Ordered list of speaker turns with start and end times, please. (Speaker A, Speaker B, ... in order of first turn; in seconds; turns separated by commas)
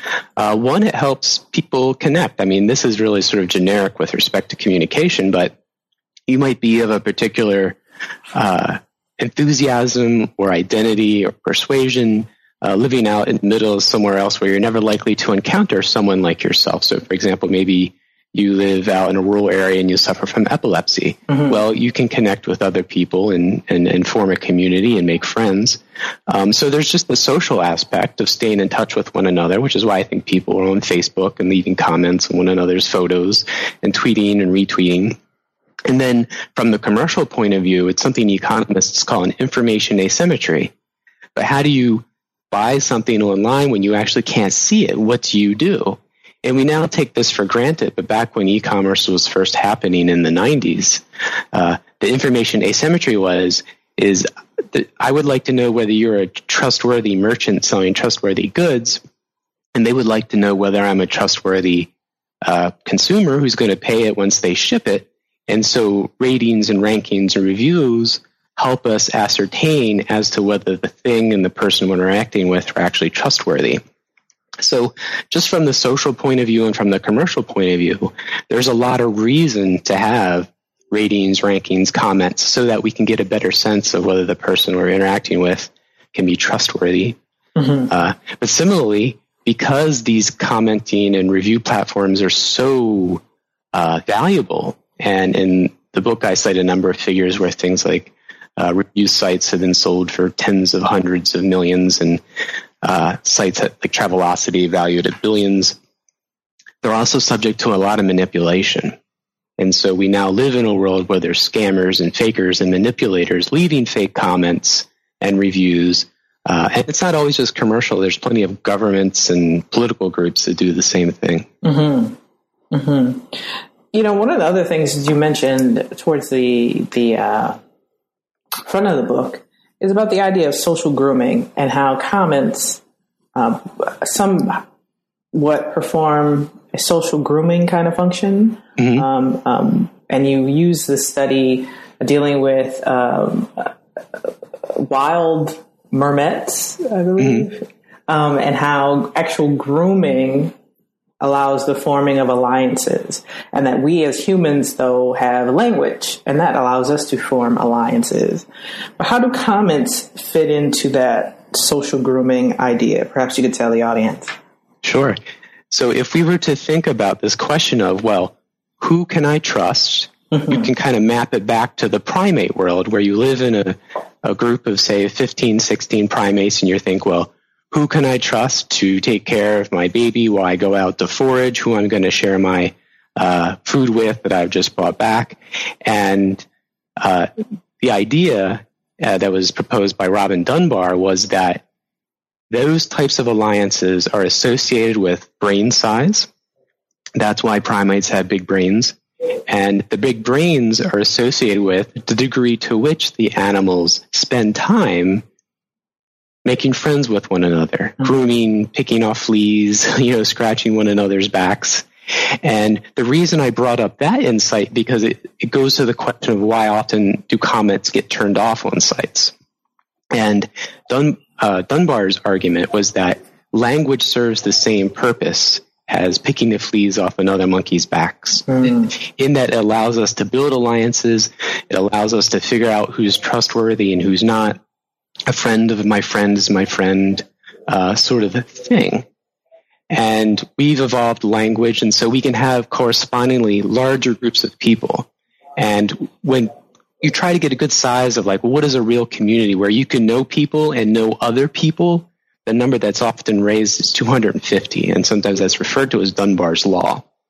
Speaker A: 0.4-5.5, Speaker A: 6.3-7.8, Speaker A: 8.3-35.2, Speaker B: 21.3-21.6, Speaker A: 35.9-40.7, Speaker A: 41.4-59.0, Speaker A: 59.7-61.9, Speaker A: 62.4-73.8, Speaker A: 74.6-87.2, Speaker B: 87.6-87.9, Speaker A: 87.9-93.2, Speaker A: 93.7-102.2, Speaker A: 102.8-105.8, Speaker A: 106.8-109.0, Speaker A: 109.6-121.5, Speaker B: 121.6-122.2, Speaker B: 122.7-123.3, Speaker B: 123.9-127.6, Speaker B: 128.7-132.8, Speaker B: 133.3-134.6, Speaker B: 135.3-150.5, Speaker A: 138.8-139.0, Speaker A: 147.2-147.5, Speaker B: 151.2-158.5, Speaker B: 159.0-164.3, Speaker A: 164.8-165.2, Speaker A: 165.7-186.5, Speaker B: 170.3-170.7, Speaker A: 187.0-191.6, Speaker A: 192.5-196.3, Speaker A: 197.2-199.0, Speaker A: 199.5-205.2, Speaker A: 206.4-211.9, Speaker A: 212.4-219.3, Speaker A: 220.1-234.6, Speaker B: 228.5-228.9, Speaker A: 235.3-239.1, Speaker A: 239.9-246.5, Speaker A: 247.0-257.0